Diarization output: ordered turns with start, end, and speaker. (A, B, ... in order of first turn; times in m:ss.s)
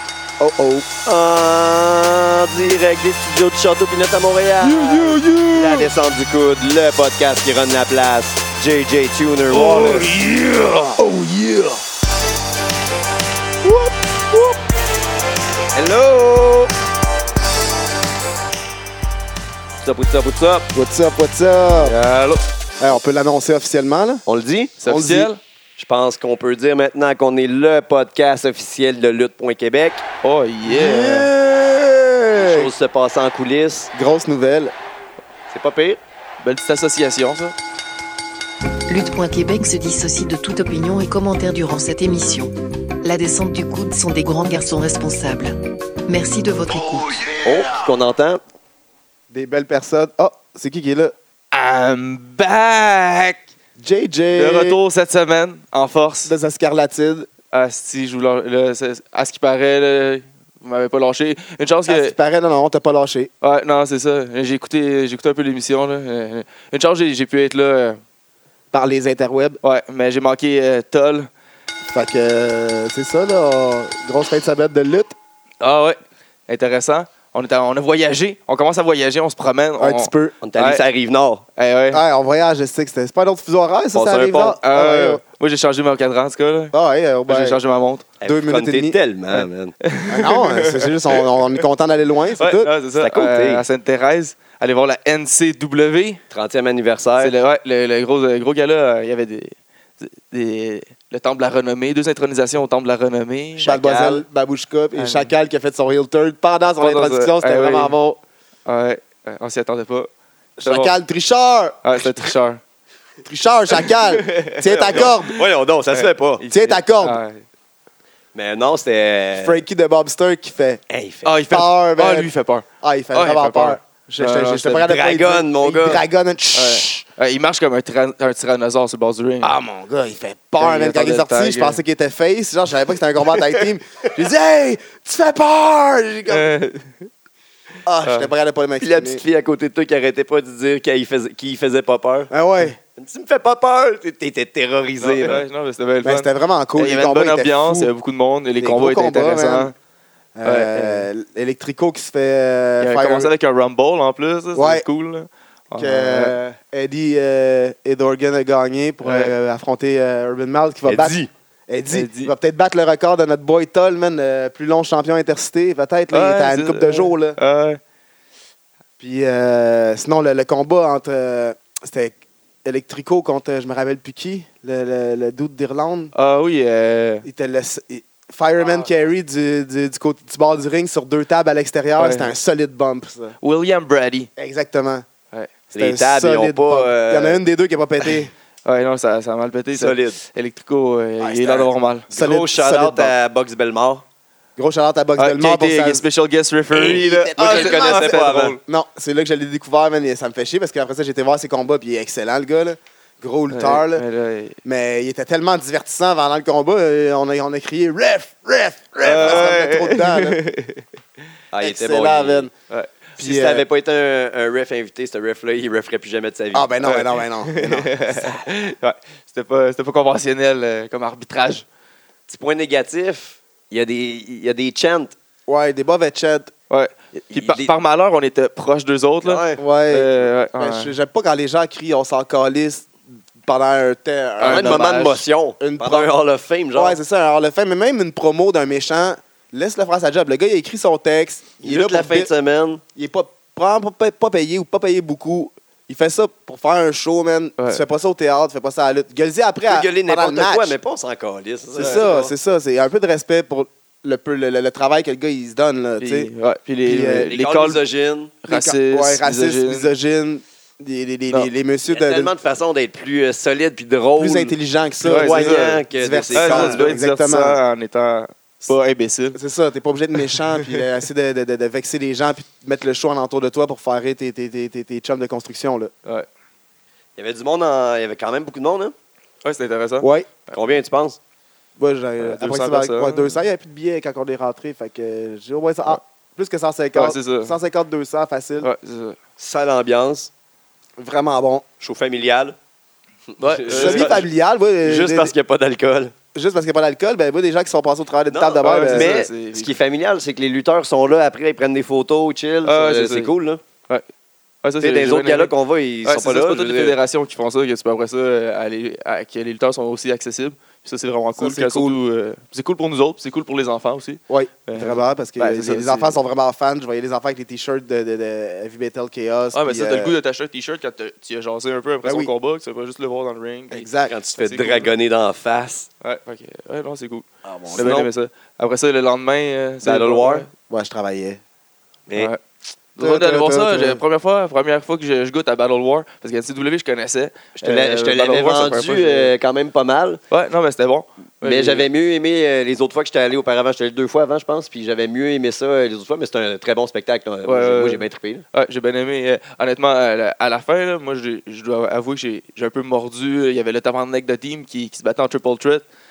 0:00.4-0:00.9 A
0:01.0-0:10.0 B
0:04.6-0:05.9 C
0:09.5-0:11.0 A
0:09.6-0:10.0 C
0:15.9-0:16.2 B
0:19.8-0:20.7 B
0:20.7-0:21.9 A
0:21.8-0:22.4 C
0:22.8-0:24.2 A
0:24.2-0:24.8 B
0:24.8-0:25.4 C
0:24.8-0:25.3 A
0:25.8-0:30.0 B
0:30.2-0:31.3 C
0:30.6-0:32.7 A
0:32.4-0:33.9 B
0:33.9-0:34.7 A
0:35.5-0:36.0 B
0:36.4-0:37.5 C
0:38.9-0:45.5 D
0:46.1-0:47.4 D
0:47.4-0:48.4 B
0:49.3-0:51.1 A
0:51.5-0:53.5 C
0:53.8-0:54.8 A
0:54.3-0:56.3 C
0:56.2-0:57.3 A
0:57.5-1:02.1 C
1:01.9-1:03.3 A
1:03.4-1:08.0 C
1:08.7-1:09.6 A
1:09.6-1:11.3 C
1:11.9-1:15.1 A
1:15.6-1:20.8 C
1:19.8-1:20.3 A
1:20.4-1:21.4 B
1:21.6-1:22.0 C
1:21.9-1:25.2 A
1:23.9-1:24.6 B
1:24.6-1:26.7 C
1:26.7-1:27.6 A
1:27.3-1:28.0 C
1:28.2-1:29.7 B
1:28.2-1:29.0 A
1:29.3-1:31.2 C
1:30.0-1:32.7 A
1:32.4-1:36.2 C
1:32.9-1:33.6 B
1:36.3-1:37.3 B
1:37.2-1:43.8 C
1:43.6-1:44.2 B
1:43.6-1:48.2 A
1:44.9-1:45.3 C
1:46.8-1:47.9 C
1:48.6-1:50.1 C
1:50.6-1:52.1 A
1:50.6-1:50.9 C
1:51.8-1:52.6 C
1:53.2-1:55.4 A
1:53.8-1:57.4 C
1:54.9-1:56.4 B
1:56.5-1:57.2 A
1:58.3-1:59.6 B
1:59.4-2:00.8 A
2:00.9-2:01.3 B
2:01.2-2:05.0 C
2:01.5-2:02.3 A
2:02.8-2:07.0 A
2:04.8-2:06.0 B
2:06.5-2:09.5 C
2:09.4-2:16.5 A
2:10.6-2:11.8 C
2:16.3-2:17.1 C
2:17.8-2:19.2 A
2:18.0-2:18.3 C
2:18.8-2:22.3 B
2:22.3-2:22.8 A
2:23.0-2:25.4 B
2:25.0-2:29.7 C
2:26.0-2:27.9 A
2:28.6-2:29.7 A
2:30.4-2:33.3 A
2:30.4-2:31.1 C
2:32.8-2:36.3 C
2:34.5-2:34.8 A
2:35.8-2:47.4 A
2:39.0-2:39.3 C
2:40.8-2:41.3 B
2:41.9-2:42.3 C
2:46.1-2:47.8 C
2:49.0-2:56.1 A
2:56.1-2:57.2 C
2:57.2-3:03.3 A
2:58.6-2:58.9 C
3:02.0-3:02.3 C
3:03.4-3:04.3 C
3:04.4-3:05.0 A
3:05.7-3:07.4 B
3:05.7-3:08.3 A
3:08.6-3:12.1 C
3:09.7-3:10.2 B
3:11.2-3:14.0 B
3:12.1-3:13.1 A
3:14.6-3:16.0 A
3:15.2-3:18.6 C
3:16.7-3:18.6 B
3:16.8-3:24.0 A
3:23.5-3:24.6 C
3:24.6-3:30.4 A
3:29.0-3:30.8 C
3:29.2-3:29.5 B
3:31.5-3:32.5 B
3:31.6-3:32.5 A
3:32.7-3:32.9 C
3:33.2-3:36.7 B
3:33.2-3:33.6 A
3:36.5-3:38.3 A
3:36.8-3:41.6 C
3:42.3-3:45.1 B
3:45.5-3:46.5 A
3:46.7-3:50.9 C
3:47.3-3:47.7 B
3:49.2-3:49.6 B
3:49.6-3:56.1 A
3:54.4-3:57.0 B
3:54.4-3:54.8 C
3:56.7-4:02.3 A
4:01.6-4:02.8 B
4:02.9-4:10.8 A
4:09.7-4:12.3 B
4:11.7-4:16.3 A
4:11.8-4:12.0 C
4:16.0-4:17.8 C
4:16.8-4:17.3 A
4:17.3-4:18.3 B
4:18.4-4:19.9 C
4:18.5-4:22.3 A
4:21.9-4:24.5 B
4:24.2-4:27.6 A
4:25.0-4:25.8 C
4:25.1-4:26.9 B
4:26.3-4:29.4 C
4:29.3-4:35.9 A
4:37.2-4:38.9 B
4:39.4-4:40.5 C
4:40.0-4:40.3 A
4:40.5-4:41.2 B
4:41.8-4:48.7 A
4:42.2-4:43.4 C
4:46.9-4:47.6 C
4:48.6-4:49.2 C
4:49.4-4:50.3 B
4:51.0-4:51.6 A
4:51.8-4:52.6 B
4:53.3-4:54.3 B
4:53.4-4:54.3 C
4:53.7-4:55.3 A
4:54.8-4:56.1 B
4:56.3-4:59.1 A
4:58.3-5:03.6 B
4:58.6-4:59.8 C
5:02.6-5:03.3 C
5:04.6-5:05.5 C
5:04.8-5:07.0 B
5:06.0-5:16.2 C
5:11.3-5:12.0 A
5:14.3-5:20.1 A
5:19.5-5:24.9 C
5:22.0-5:22.3 A
5:23.7-5:24.1 A
5:24.1-5:25.9 B
5:26.0-5:30.5 C
5:27.4-5:27.9 A
5:27.7-5:28.1 B
5:29.8-5:30.5 B
5:30.7-5:31.4 A
5:33.0-5:39.3 C
5:33.0-5:34.0 A
5:37.6-5:40.2 B
5:40.3-5:41.9 C
5:41.4-5:48.4 B
5:47.4-5:55.8 C